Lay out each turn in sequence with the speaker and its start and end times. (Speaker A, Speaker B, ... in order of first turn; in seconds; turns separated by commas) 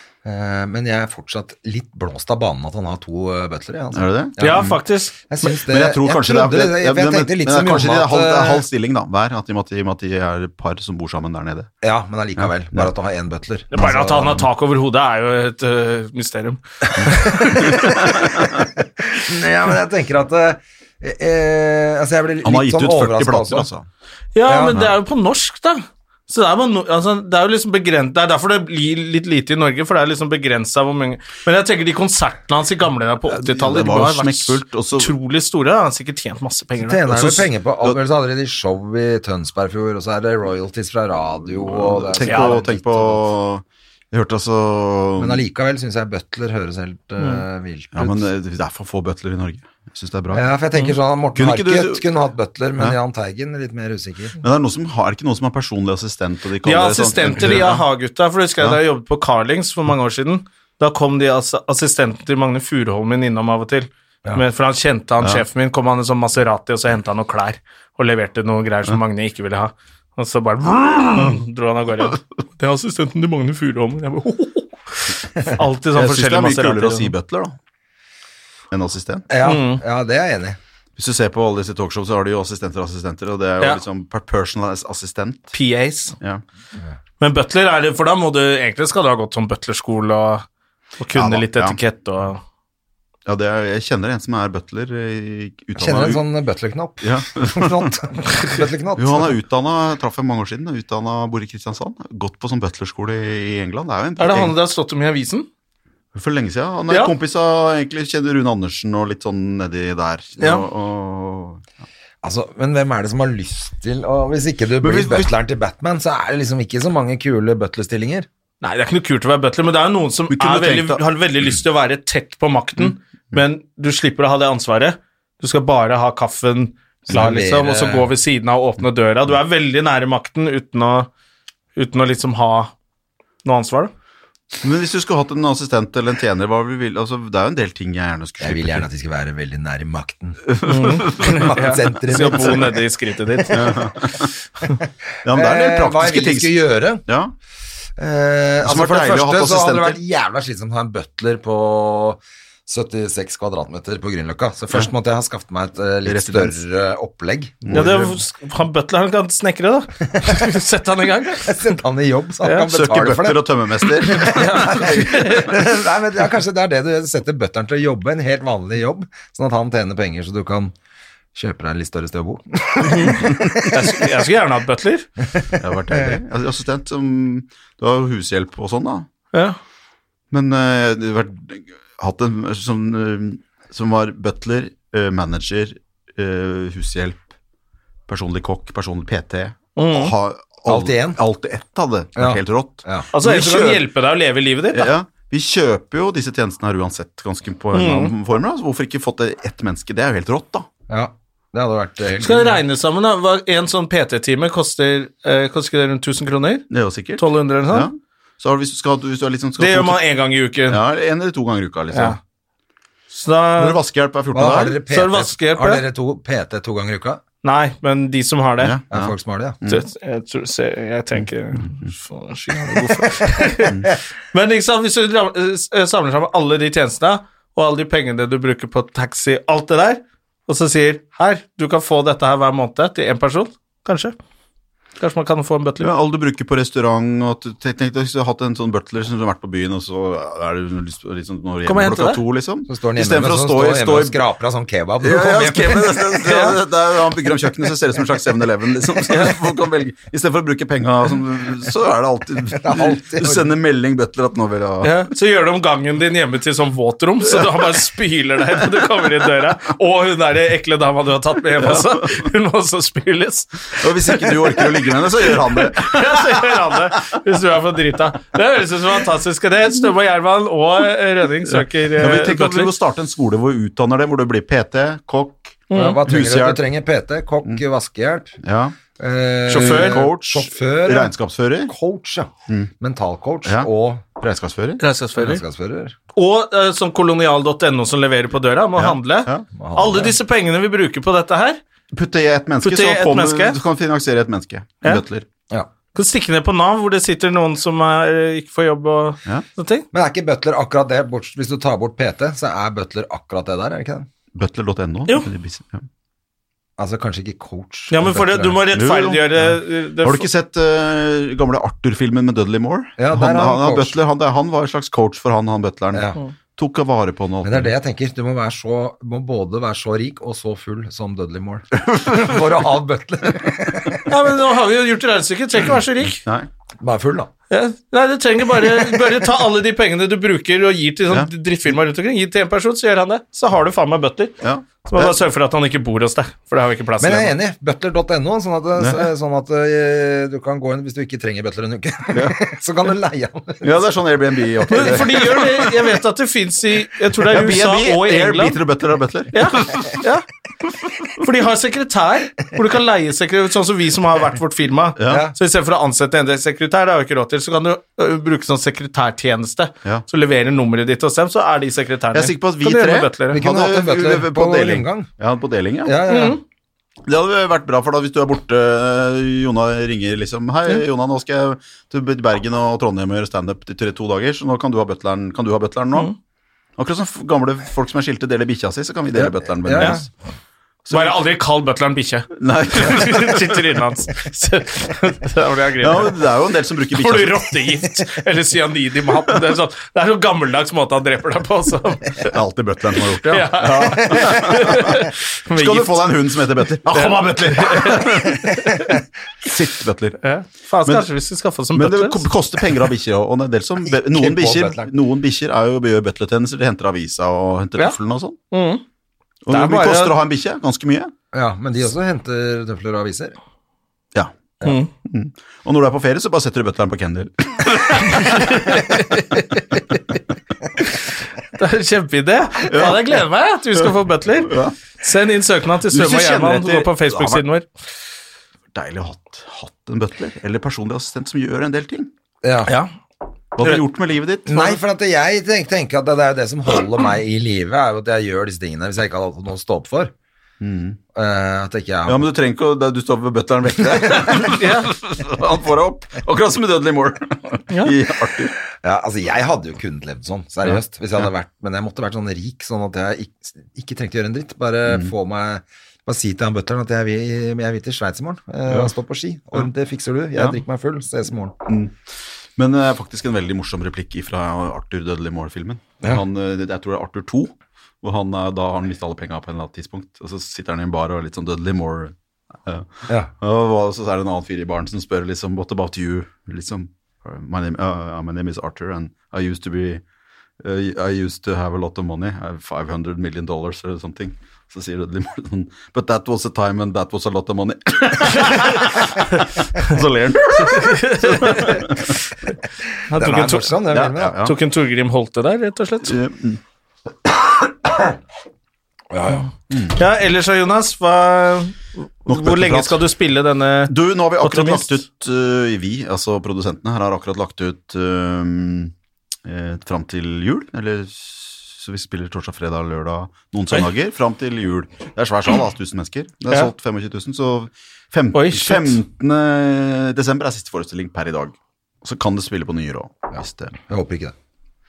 Speaker A: 0.2-4.7, Speaker B: 3.9-4.8, Speaker C: 4.4-5.3, Speaker A: 5.3-8.7, Speaker B: 5.6-11.7, Speaker A: 11.8-14.5, Speaker B: 12.4-12.9, Speaker C: 13.7-17.9, Speaker A: 17.3-23.7, Speaker B: 17.6-18.6, Speaker B: 22.4-23.9, Speaker C: 24.4-37.3, Speaker A: 24.5-24.8, Speaker B: 33.3-35.1, Speaker A: 36.8-43.3, Speaker B: 37.1-38.0, Speaker B: 41.6-45.4, Speaker C: 42.2-42.5, Speaker A: 45.2-48.3, Speaker B: 48.0-50.5, Speaker A: 50.3-54.4, Speaker B: 51.4-52.1, Speaker B: 54.4-57.9, Speaker C: 56.6-77.1, Speaker B: 75.9-77.6, Speaker B: 78.7-79.3, Speaker A: 79.3-80.6, Speaker C: 79.4-79.8, Speaker B: 81.0-85.5, Speaker C: 85.5-86.2, Speaker C: 87.2-90.5, Speaker C: 91.0-92.4, Speaker B: 91.1-91.8, Speaker B: 93.3-96.2, Speaker A: 95.8-99.3, Speaker B: 97.0-98.0, Speaker B: 99.0-104.5, Speaker C: 104.2-105.5, Speaker B: 106.1-111.6, Speaker A: 112.2-118.3, Speaker B: 114.8-115.3, Speaker C: 118.6-131.1, Speaker B: 120.3-121.5, Speaker A: 127.1-128.1, Speaker C: 131.8-132.7, Speaker C: 133.4-133.9, Speaker B: 134.6-138.8, Speaker A: 138.4-140.5, Speaker B: 140.5-141.6, Speaker C: 140.7-143.7, Speaker A: 141.1-142.8, Speaker B: 143.5-144.3, Speaker B: 145.2-147.3, Speaker A: 145.3-147.0, Speaker A: 148.0-157.7, Speaker B: 148.6-150.0, Speaker B: 156.1-156.6, Speaker B: 157.6-158.2, Speaker C: 157.7-161.5, Speaker A: 160.1-160.4, Speaker A: 161.3-170.8, Speaker C: 162.4-162.7, Speaker B: 162.7-165.6, Speaker C: 164.2-165.5, Speaker A: 171.3-173.7, Speaker C: 172.8-175.1, Speaker A: 175.3-176.2, Speaker B: 175.6-179.1, Speaker B: 180.3-187.2, Speaker B: 188.1-193.9, Speaker C: 189.8-190.1, Speaker A: 190.7-191.2, Speaker A: 192.2-193.1, Speaker C: 193.1-194.9, Speaker B: 194.7-200.7, Speaker C: 197.7-198.1, Speaker A: 200.9-202.6, Speaker C: 202.2-207.9, Speaker B: 206.7-210.0, Speaker C: 209.6-210.8, Speaker B: 210.7-212.2, Speaker C: 211.9-212.2, Speaker C: 213.1-213.8, Speaker B: 213.6-214.8, Speaker A: 214.3-217.2, Speaker C: 214.9-215.8, Speaker C: 217.4-218.8, Speaker B: 218.6-219.8, Speaker A: 218.9-219.6, Speaker C: 219.7-223.8, Speaker B: 221.6-221.9, Speaker C: 224.3-234.2, Speaker C: 235.0-235.9, Speaker B: 235.8-244.2, Speaker C: 241.7-242.2, Speaker A: 242.7-246.2, Speaker B: 245.0-255.1, Speaker C: 246.2-246.5, Speaker A: 252.5-253.5, Speaker C: 254.8-264.7, Speaker B: 257.3-257.8, Speaker B: 261.6-262.3, Speaker B: 263.8-267.1, Speaker C: 265.2-272.7, Speaker B: 271.5-276.6, Speaker C: 275.7-276.0, Speaker A: 275.7-278.4, Speaker B: 278.4-278.8, Speaker A: 279.0-281.1, Speaker C: 279.5-280.0, Speaker B: 279.5-281.7, Speaker A: 281.7-284.3, Speaker B: 284.2-284.8, Speaker C: 284.8-285.4, Speaker A: 285.2-286.0, Speaker C: 286.1-291.6, Speaker B: 288.8-289.5, Speaker A: 289.6-290.1, Speaker B: 291.9-295.3, Speaker C: 292.6-293.6, Speaker C: 295.9-299.9, Speaker A: 299.9-304.1, Speaker B: 304.4-305.9, Speaker A: 306.8-308.6, Speaker C: 307.9-310.3, Speaker B: 308.7-317.7, Speaker A: 313.0-314.0, Speaker A: 315.9-316.2, Speaker A: 317.4-324.1, Speaker B: 321.8-322.5, Speaker C: 324.1-326.2, Speaker B: 326.1-326.5, Speaker A: 326.8-327.3, Speaker C: 327.5-334.4, Speaker B: 334.4-335.2, Speaker C: 334.9-337.3, Speaker A: 337.0-343.9, Speaker B: 338.8-339.1, Speaker B: 342.1-342.4, Speaker B: 343.6-345.8, Speaker A: 344.7-345.1, Speaker C: 344.7-348.6, Speaker B: 347.2-350.0, Speaker C: 349.3-350.2, Speaker C: 351.2-363.4, Speaker B: 355.0-355.3, Speaker A: 355.1-355.4, Speaker B: 362.1-366.0, Speaker A: 363.3-365.1, Speaker A: 365.9-366.4, Speaker C: 366.1-366.4, Speaker B: 367.1-376.1, Speaker B: 376.8-380.1, Speaker A: 379.1-380.0, Speaker B: 380.9-381.2, Speaker C: 380.9-386.2, Speaker B: 382.4-383.6, Speaker B: 385.8-387.6, Speaker C: 386.9-392.3, Speaker B: 392.2-398.8, Speaker C: 393.2-396.1, Speaker C: 396.9-398.9, Speaker B: 399.4-400.2, Speaker C: 400.2-402.3, Speaker B: 401.8-408.4, Speaker A: 403.9-404.9, Speaker C: 408.5-408.8, Speaker B: 409.4-411.1, Speaker C: 409.5-410.1, Speaker A: 411.3-413.4, Speaker C: 414.6-414.9, Speaker B: 415.0-419.2, Speaker C: 418.1-420.0, Speaker C: 420.8-427.7, Speaker B: 422.7-423.2, Speaker B: 424.4-424.8, Speaker B: 425.9-427.4, Speaker B: 428.7-432.1, Speaker A: 432.4-432.7, Speaker C: 432.7-432.9, Speaker B: 433.6-434.8, Speaker A: 434.5-440.1, Speaker B: 440.6-441.0, Speaker A: 441.1-442.3, Speaker B: 442.1-448.6, Speaker A: 443.9-444.3, Speaker C: 444.4-444.9, Speaker A: 448.8-461.6, Speaker B: 461.7-461.9, Speaker B: 462.6-472.1, Speaker B: 472.6-480.0, Speaker B: 480.6-492.1, Speaker C: 488.4-489.2, Speaker C: 490.5-492.1, Speaker C: 493.1-493.8, Speaker A: 493.1-494.4, Speaker B: 493.9-494.6, Speaker C: 494.4-496.1, Speaker B: 496.0-496.6, Speaker A: 499.1-499.5, Speaker B: 499.7-500.0, Speaker C: 500.0-505.0, Speaker B: 502.3-503.0, Speaker B: 503.9-508.9, Speaker B: 509.4-523.8, Speaker C: 518.3-519.0, Speaker A: 523.8-524.4